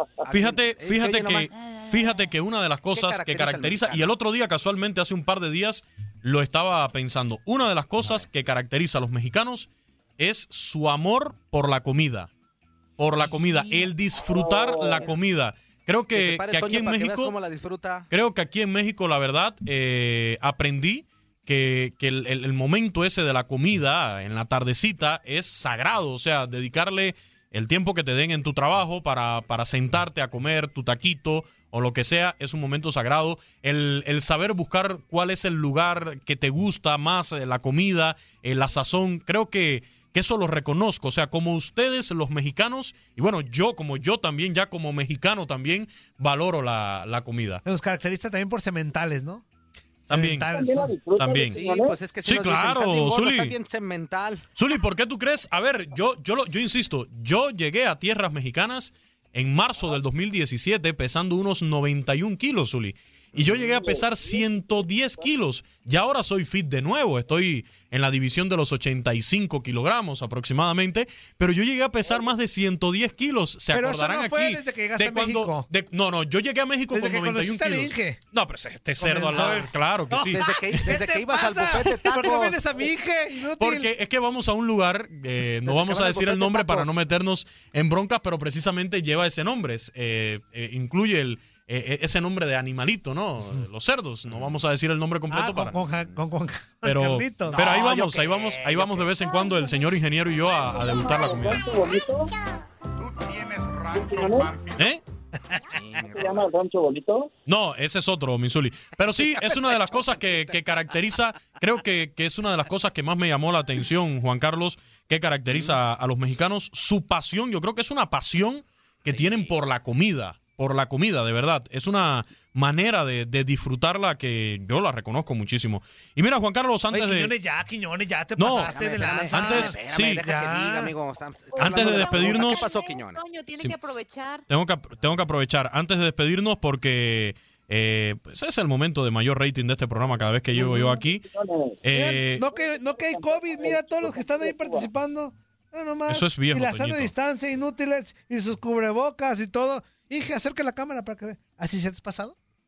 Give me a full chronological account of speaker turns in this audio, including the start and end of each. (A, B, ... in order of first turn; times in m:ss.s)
0:00.2-0:01.5 A
0:00.3-0:12.3 B
0:02.9-0:04.1 A
0:13.0-0:17.3 B
0:14.2-0:15.1 C
0:16.1-0:18.1 A
0:18.1-0:47.6 B
0:47.6-0:49.4 D
0:50.1-0:50.5 B
0:50.1-0:50.9 D
0:50.5-0:52.0 C
0:51.2-0:51.6 B
0:51.5-0:54.4 A
0:52.2-0:53.5 B
0:54.6-1:20.4 B
1:03.4-1:04.8 C
1:13.7-1:15.6 D
1:16.9-1:18.2 D
1:19.0-1:23.9 D
1:20.2-1:22.9 A
1:23.6-1:35.8 B
1:25.6-1:26.9 A
1:35.3-1:37.6 D
1:36.8-1:41.7 B
1:37.5-1:39.1 A
1:40.7-1:42.3 C
1:43.9-1:44.6 C
1:44.7-1:45.0 B
1:45.7-1:46.5 A
1:46.0-1:47.3 C
1:47.4-2:07.3 B
1:59.1-1:59.5 A
2:06.9-2:10.9 D
2:08.4-2:10.2 B
2:08.5-2:13.2 A
2:11.6-2:14.4 E
2:11.6-2:12.6 B
2:14.5-2:21.2 B
2:20.5-2:21.8 C
2:21.8-2:22.4 B
2:21.9-2:32.3 D
2:22.4-2:24.9 C
2:26.1-2:27.1 B